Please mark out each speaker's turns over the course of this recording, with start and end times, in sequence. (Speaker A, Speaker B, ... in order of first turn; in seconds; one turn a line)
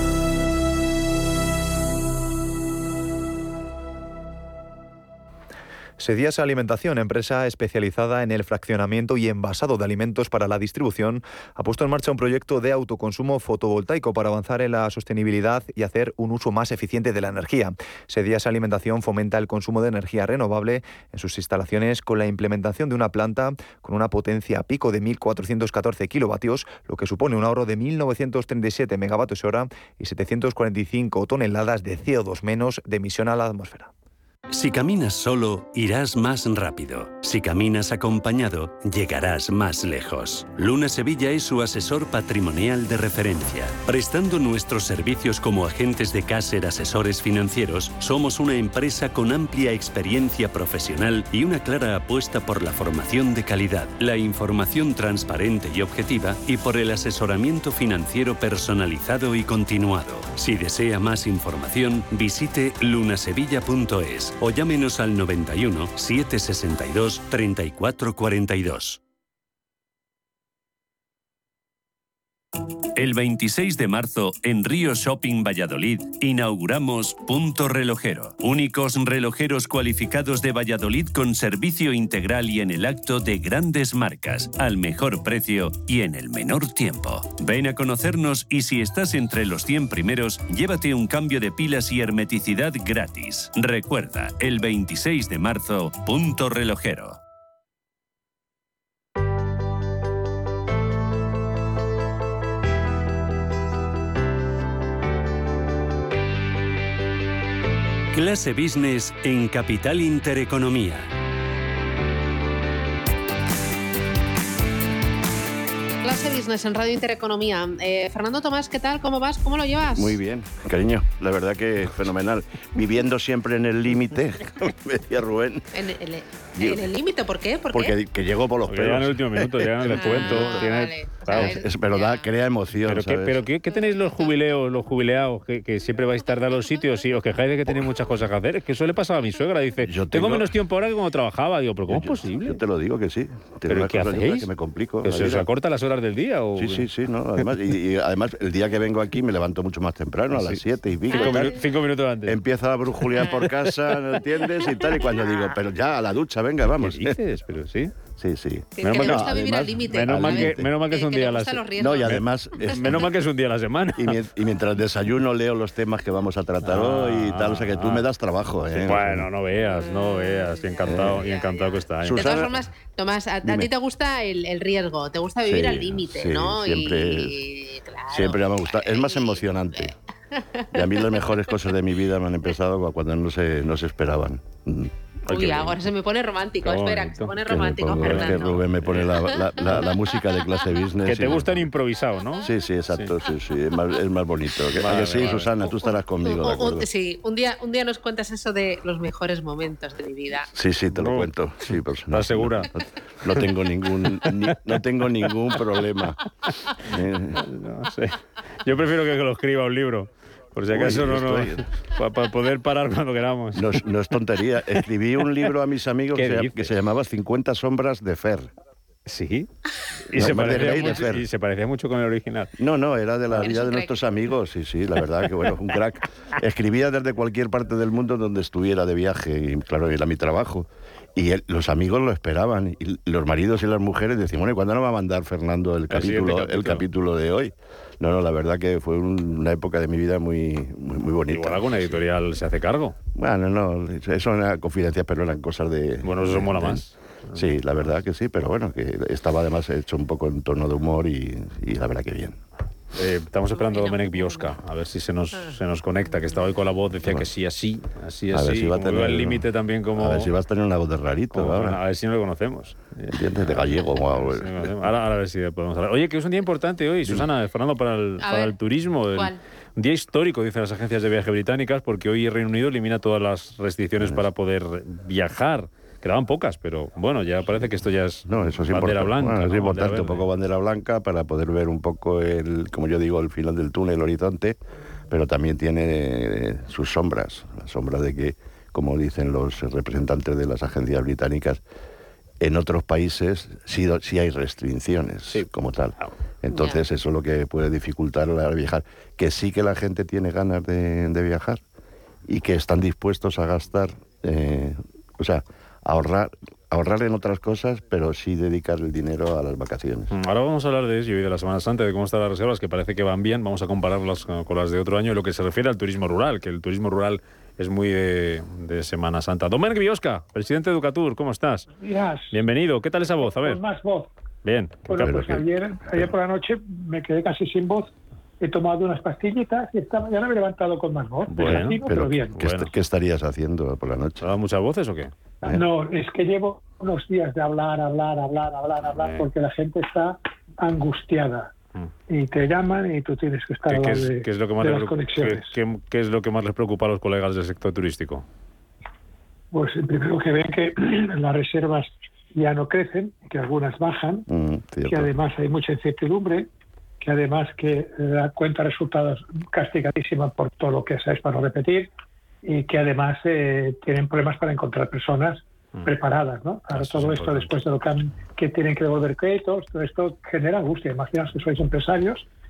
Speaker A: 6.0-33.9
Speaker B: 34.5-69.0
Speaker B: 73.0-97.2
Speaker B: 108.1-111.1
Speaker C: 116.0-120.2
Speaker D: 119.9-125.7
Speaker C: 125.7-128.0
Speaker D: 126.6-126.9
Speaker D: 127.7-130.6
Speaker E: 128.7-131.6
Speaker C: 129.9-132.3
Speaker D: 131.3-133.4
Speaker E: 132.9-142.6
Speaker C: 133.7-134.3
Speaker D: 139.8-140.5
Speaker D: 141.9-145.5
Speaker E: 143.7-144.5
Speaker E: 145.0-146.9
Speaker D: 146.6-151.6
Speaker E: 150.3-152.4
Speaker C: 151.1-151.5
Speaker D: 152.2-157.2
Speaker E: 153.4-153.7
Speaker E: 156.7-157.9
Speaker D: 158.2-160.7
Speaker C: 158.8-162.2
Speaker E: 158.8-164.2
Speaker D: 161.7-163.1
Speaker D: 164.0-169.3
Speaker E: 166.6-168.1
Speaker E: 168.8-172.5
Speaker C: 169.7-179.9
Speaker D: 170.9-171.3
Speaker D: 172.0-172.7
Speaker D: 173.4-173.7
Speaker D: 175.4-177.4
Speaker D: 178.1-179.9
Speaker C: 180.6-181.0
Speaker D: 180.7-184.9
Speaker E: 185.3-185.8
Speaker C: 185.3-190.6
Speaker E: 186.6-187.4
Speaker D: 187.4-191.7
Speaker E: 187.9-189.8
Speaker E: 191.1-193.1
Speaker D: 192.4-196.9
Speaker E: 194.8-195.5
Speaker C: 195.2-200.5
Speaker D: 200.5-206.2
Speaker E: 200.9-202.7
Speaker D: 206.8-207.4
Speaker E: 207.3-213.8
Speaker D: 210.7-211.7
Speaker D: 213.5-218.5
Speaker E: 216.1-216.7
Speaker E: 219.1-219.5
Speaker E: 220.1-222.5
Speaker D: 220.1-221.3
Speaker D: 222.6-242.0
Speaker C: 223.4-224.0
Speaker E: 235.9-236.9
Speaker E: 241.3-243.0
Speaker D: 243.1-252.4
Speaker E: 246.0-247.4
Speaker E: 252.9-260.3
Speaker C: 253.6-254.5
Speaker D: 258.3-261.8
Speaker E: 261.3-280.3
Speaker D: 263.1-264.8
Speaker C: 268.2-268.6
Speaker C: 269.1-269.4
Speaker D: 278.3-284.6
Speaker D: 285.1-291.6
Speaker D: 292.4-301.6
Speaker C: 296.5-296.8
Speaker D: 302.2-310.1
Speaker E: 310.1-321.7
Speaker F: 321.8-322.4
Speaker E: 322.3-323.6
Speaker F: 323.2-324.1
Speaker E: 324.4-325.3
Speaker F: 324.9-332.4
Speaker D: 325.0-325.4
Speaker E: 331.3-331.8
Speaker D: 331.4-334.3
Speaker E: 332.4-332.7
Speaker E: 334.2-335.1
Speaker F: 335.4-341.5
Speaker E: 338.8-339.3
Speaker F: 342.1-345.5
Speaker E: 343.7-348.2
Speaker F: 349.5-354.3
Speaker D: 354.3-355.2
Speaker F: 354.9-356.5
Speaker F: 357.0-361.9
Speaker F: 362.4-372.3
Speaker E: 366.7-367.6